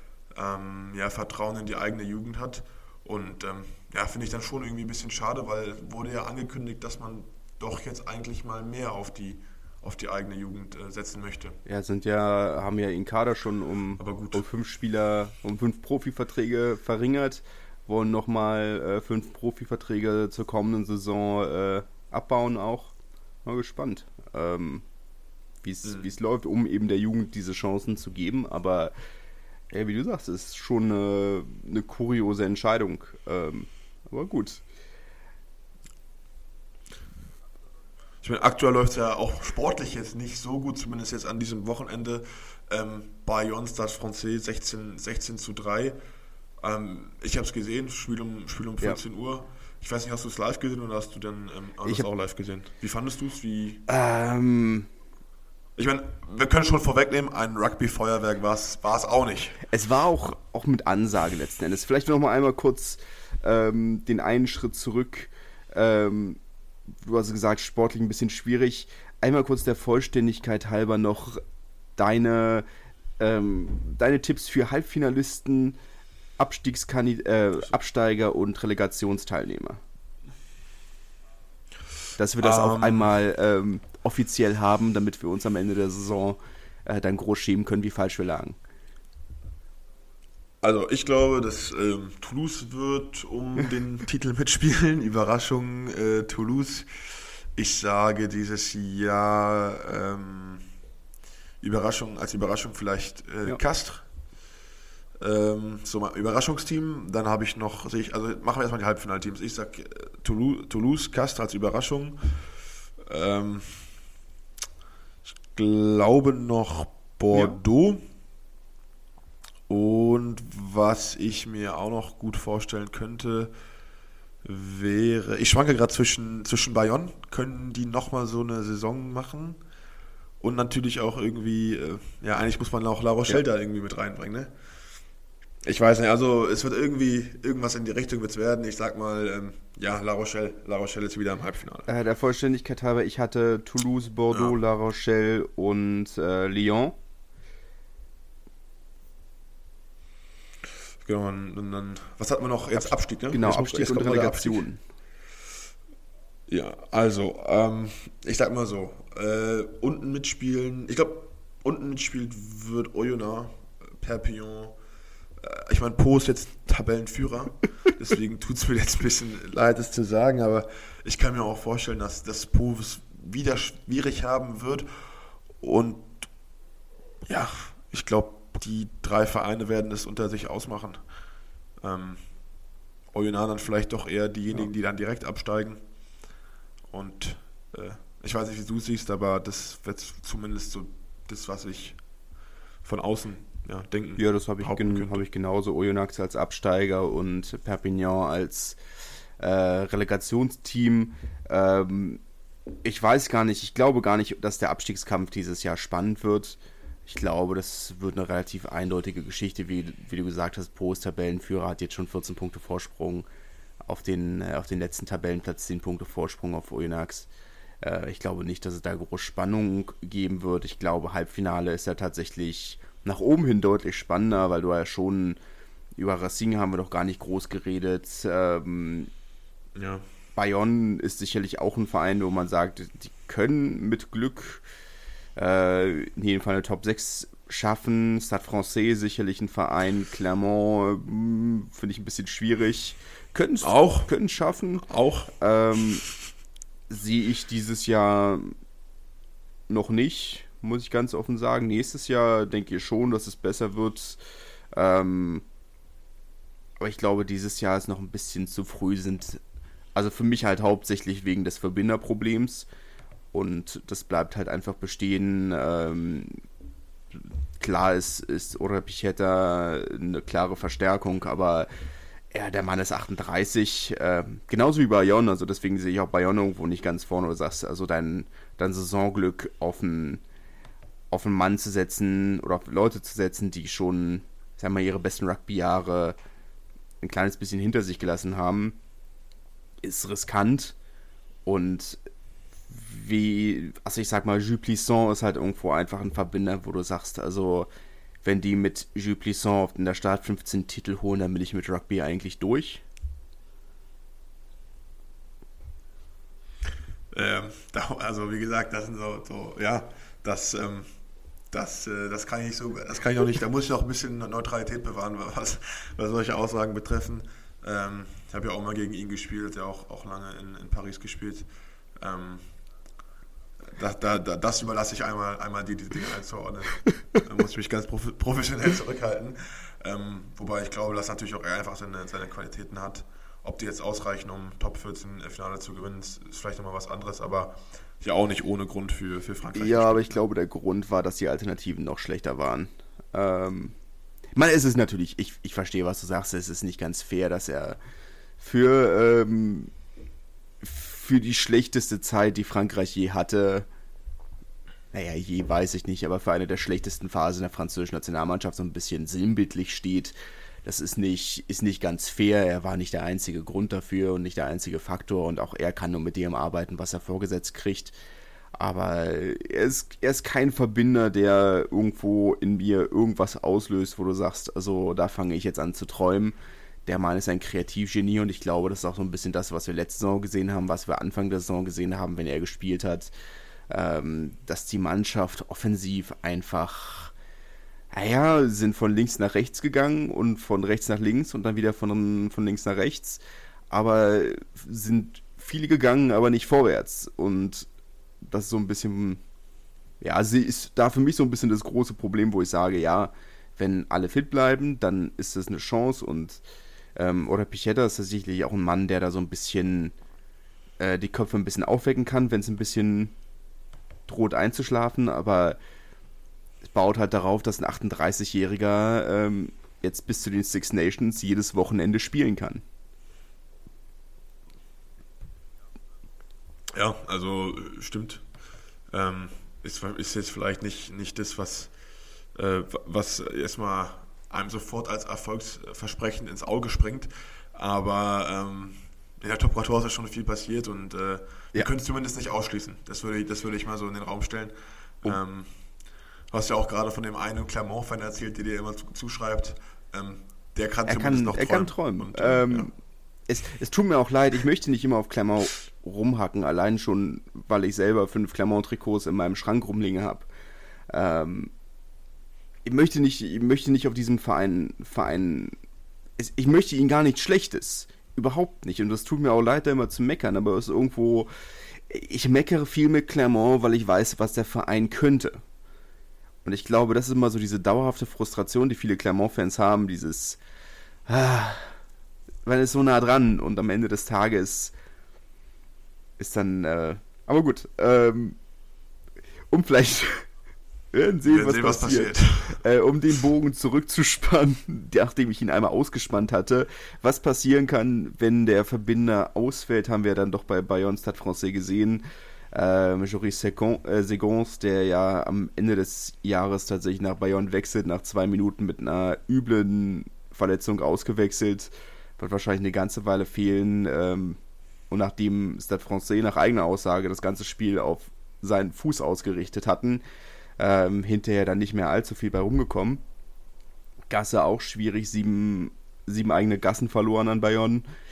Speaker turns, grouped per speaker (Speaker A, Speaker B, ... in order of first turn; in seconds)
Speaker A: 0.3-11.6, 14.0-14.4, 38.2-46.0, 46.6-53.8, 55.8-59.6, 82.4-83.1, 90.6-100.7, 101.6-104.0, 105.2-112.3, 113.0-113.9, 115.5-118.0, 119.7-123.5, 124.4-129.6, 130.4-134.5, 135.6-141.9, 144.3-144.6, 151.0-154.7, 156.5-164.8, 165.4-174.9, 175.6-176.3, 177.3-181.0, 181.8-182.2, 183.1-185.8, 186.9-192.0, 192.8-195.2, 229.7-230.0, 243.6-244.1, 244.8-245.3, 307.1-310.9, 311.5-321.4, 322.0-322.4, 323.6-340.2, 426.7-428.2, 428.9-431.7, 432.3-445.5, 446.3-452.7, 491.2-492.6
Speaker B: 11.7-22.9, 23.4-24.8, 25.6-28.9, 29.7-34.6, 53.9-54.9, 59.7-66.4, 67.0-71.4, 72.0-72.7, 73.2-75.8, 76.4-79.8, 82.2-88.6, 117.3-117.6, 141.9-147.0, 152.7-154.8, 194.2-198.8, 199.4-202.2, 202.8-213.3, 213.8-217.3, 217.8-225.4, 226.0-229.1, 230.3-234.6, 235.3-244.9, 245.4-246.0, 246.9-248.5, 249.7-254.2, 254.7-255.4, 256.8-259.4, 259.9-262.7, 263.3-266.4, 267.6-271.7, 272.3-280.2, 281.1-286.1, 287.0-288.8, 289.8-290.7, 291.4-292.0, 292.7-297.7, 298.2-302.8, 339.5-343.7, 344.3-347.8, 348.4-349.7, 350.6-353.6, 354.9-367.9, 368.5-383.1, 383.7-387.1, 387.9-397.7, 398.2-399.2, 400.0-406.4, 406.9-409.9, 410.8-413.1, 414.1-415.6, 416.6-422.6, 450.9-452.7, 453.3-460.3, 460.9-461.5, 462.6-465.6, 466.2-471.3, 471.9-475.4, 476.4-480.4, 481.1-481.7, 482.4-484.7, 486.2-488.4, 489.5-490.3, 490.9-514.4, 514.9-520.0, 520.6-523.0, 524.1-527.9